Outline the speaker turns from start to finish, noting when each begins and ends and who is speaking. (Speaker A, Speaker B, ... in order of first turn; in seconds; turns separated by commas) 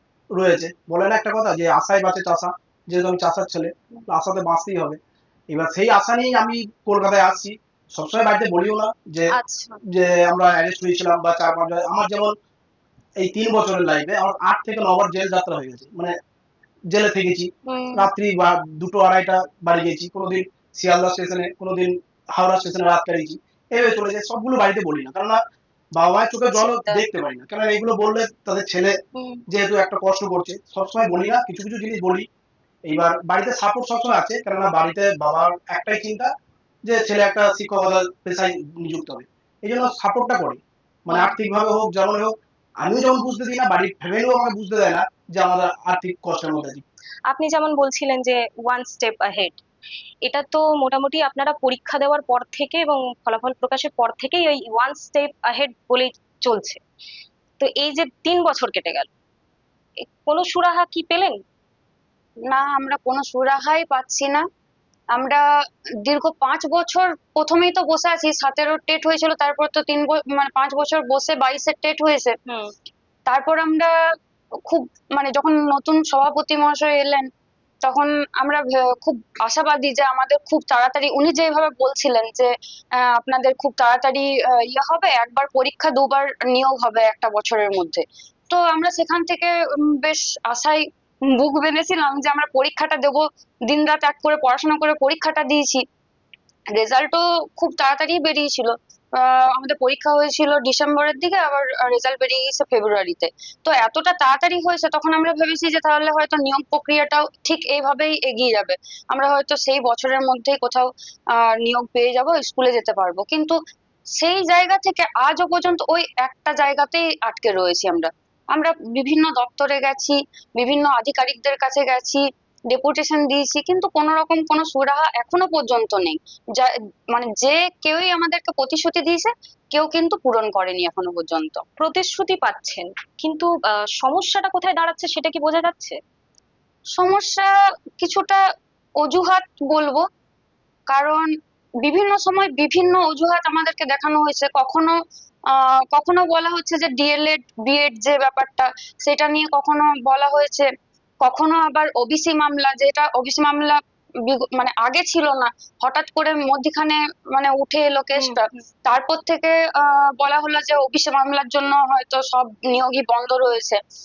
Speaker A: 0.3-9.3, Speaker B: 9.3-9.8, Speaker A: 9.8-12.3, Speaker A: 13.2-16.1, Speaker A: 16.9-25.4, Speaker B: 17.7-18.1, Speaker A: 25.9-29.0, Speaker B: 26.5-27.0, Speaker B: 29.1-29.4, Speaker A: 29.5-32.3, Speaker A: 32.9-36.3, Speaker A: 36.8-46.8, Speaker B: 41.1-41.3, Speaker B: 47.3-49.6, Speaker B: 50.2-56.8, Speaker B: 57.6-59.1, Speaker B: 60.0-61.4, Speaker C: 62.5-64.5, Speaker C: 65.1-65.4, Speaker C: 66.0-72.3, Speaker C: 73.3-73.9, Speaker C: 74.6-77.3, Speaker C: 77.8-95.8, Speaker C: 96.7-113.5, Speaker C: 114.2-131.6, Speaker B: 131.8-136.0, Speaker C: 136.9-138.4, Speaker C: 139.0-140.0, Speaker C: 140.9-141.3, Speaker C: 141.8-144.9, Speaker C: 145.5-150.7, Speaker C: 151.2-163.8, Speaker B: 158.2-158.6